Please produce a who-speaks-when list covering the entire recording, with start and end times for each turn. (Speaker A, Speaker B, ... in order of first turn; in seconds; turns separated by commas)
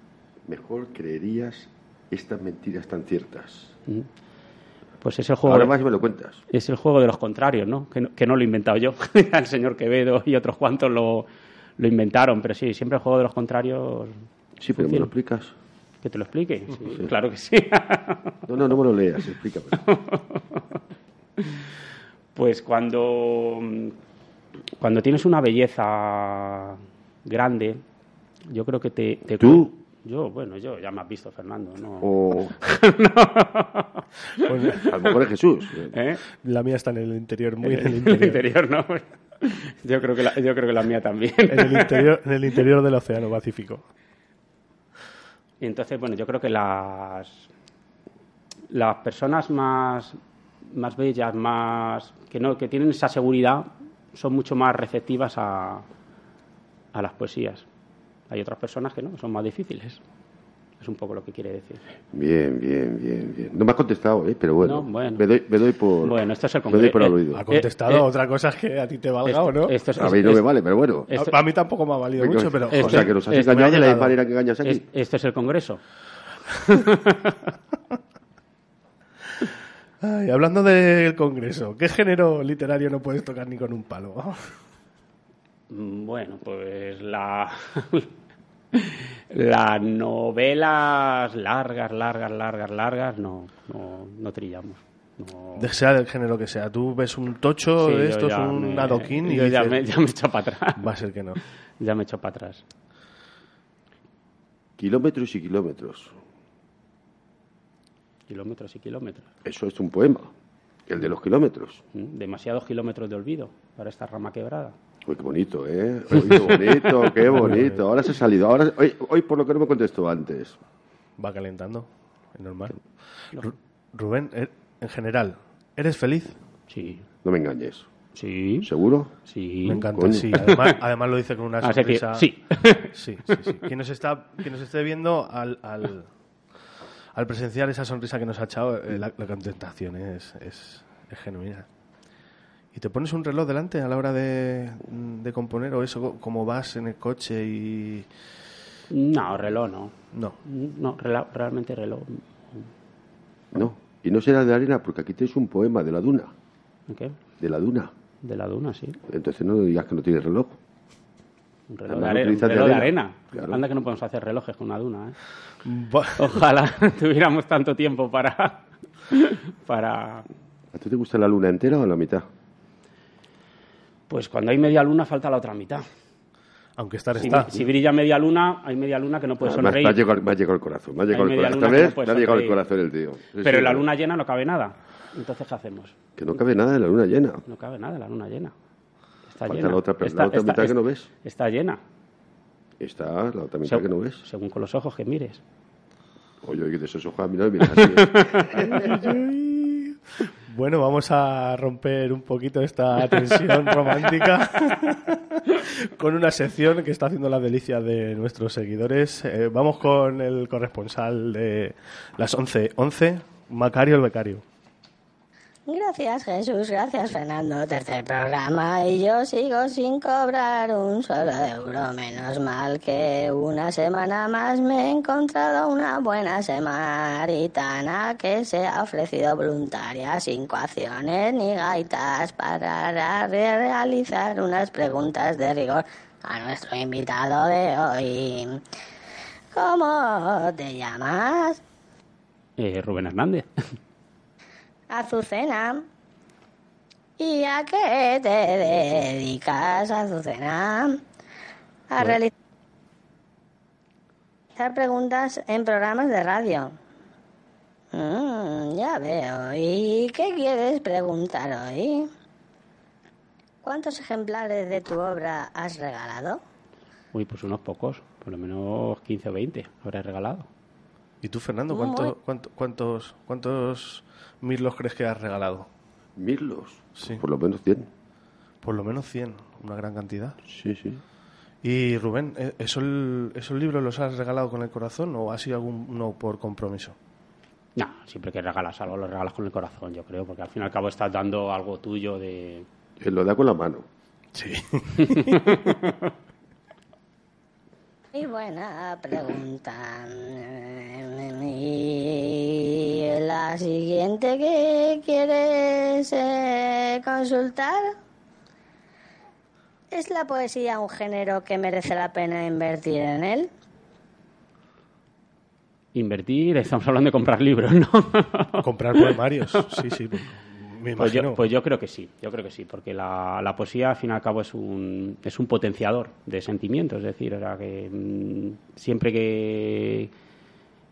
Speaker A: 0.5-3.7, Speaker B: 5.0-5.7, Speaker A: 5.5-6.4, Speaker B: 6.5-11.3, Speaker B: 11.8-14.1, Speaker A: 14.6-15.5, Speaker B: 14.7-15.1, Speaker B: 16.0-18.4, Speaker A: 18.5-19.9, Speaker B: 19.9-20.6, Speaker B: 22.3-23.9, Speaker B: 24.8-27.8, Speaker B: 28.4-34.9, Speaker A: 29.4-29.7, Speaker A: 32.0-32.5, Speaker C: 34.4-34.9, Speaker A: 34.8-35.9, Speaker B: 35.9-36.2, Speaker C: 36.4-38.4, Speaker B: 37.6-42.1, Speaker C: 41.5-43.8, Speaker B: 45.6-47.5, Speaker B: 48.7-55.9, Speaker B: 56.9-57.6, Speaker B: 58.3-60.0, Speaker B: 60.8-61.8, Speaker A: 62.1-67.4, Speaker B: 64.6-65.2, Speaker B: 66.0-68.0, Speaker C: 67.3-69.8, Speaker B: 69.2-70.4, Speaker A: 69.9-71.1, Speaker B: 71.1-71.3, Speaker C: 71.1-74.2, Speaker A: 72.2-74.8, Speaker B: 72.7-73.6, Speaker B: 74.6-75.8, Speaker B: 76.5-77.5, Speaker C: 80.0-84.5, Speaker B: 85.7-88.1, Speaker B: 88.7-95.7, Speaker C: 95.6-99.8, Speaker B: 97.8-100.8, Speaker C: 100.8-101.4, Speaker B: 101.8-102.6, Speaker A: 104.8-106.2, Speaker B: 108.3-109.3, Speaker A: 109.4-110.3, Speaker A: 110.9-111.8, Speaker B: 111.9-114.7, Speaker A: 115.0-120.6, Speaker B: 116.3-117.1, Speaker C: 117.4-117.8, Speaker C: 121.2-122.8, Speaker C: 123.4-126.3, Speaker B: 126.7-127.0, Speaker A: 127.2-127.9, Speaker B: 128.1-128.7, Speaker A: 128.6-129.1, Speaker B: 129.2-130.8, Speaker C: 129.6-136.1, Speaker A: 129.9-130.4, Speaker B: 131.6-133.5, Speaker C: 137.1-141.7, Speaker C: 142.7-148.1, Speaker B: 148.9-152.7, Speaker A: 153.5-156.3, Speaker B: 156.9-157.2, Speaker A: 157.4-157.9, Speaker B: 158.2-159.0, Speaker A: 159.1-160.6, Speaker B: 161.7-165.2, Speaker A: 161.9-163.6, Speaker C: 165.6-166.3, Speaker B: 166.1-170.2, Speaker A: 170.7-172.2, Speaker B: 174.1-175.8, Speaker C: 176.8-177.5, Speaker B: 177.2-180.0, Speaker A: 179.4-183.8, Speaker B: 181.1-182.6, Speaker B: 183.4-185.9, Speaker A: 186.2-187.4, Speaker B: 187.4-188.5, Speaker B: 189.3-191.8, Speaker A: 189.5-191.1, Speaker A: 192.8-194.2, Speaker B: 193.7-195.4, Speaker A: 196.4-198.9, Speaker B: 197.8-198.8, Speaker C: 198.6-214.4, Speaker D: 215.7-238.6, Speaker D: 239.5-241.6, Speaker B: 242.6-243.5, Speaker D: 244.9-245.8, Speaker D: 247.2-251.0, Speaker D: 251.9-252.3, Speaker D: 254.6-256.8, Speaker D: 257.9-262.1, Speaker D: 263.6-266.4, Speaker B: 267.1-270.5, Speaker C: 271.2-275.7, Speaker D: 271.7-272.1, Speaker A: 276.2-277.9, Speaker C: 277.0-277.2, Speaker C: 278.6-280.4, Speaker A: 280.5-281.0, Speaker C: 281.6-286.9, Speaker B: 287.8-292.6, Speaker A: 293.0-293.8, Speaker C: 294.3-295.7, Speaker B: 294.9-296.1, Speaker D: 298.1-307.9, Speaker D: 309.9-313.5, Speaker B: 315.9-319.8, Speaker C: 318.6-321.5, Speaker B: 321.0-330.1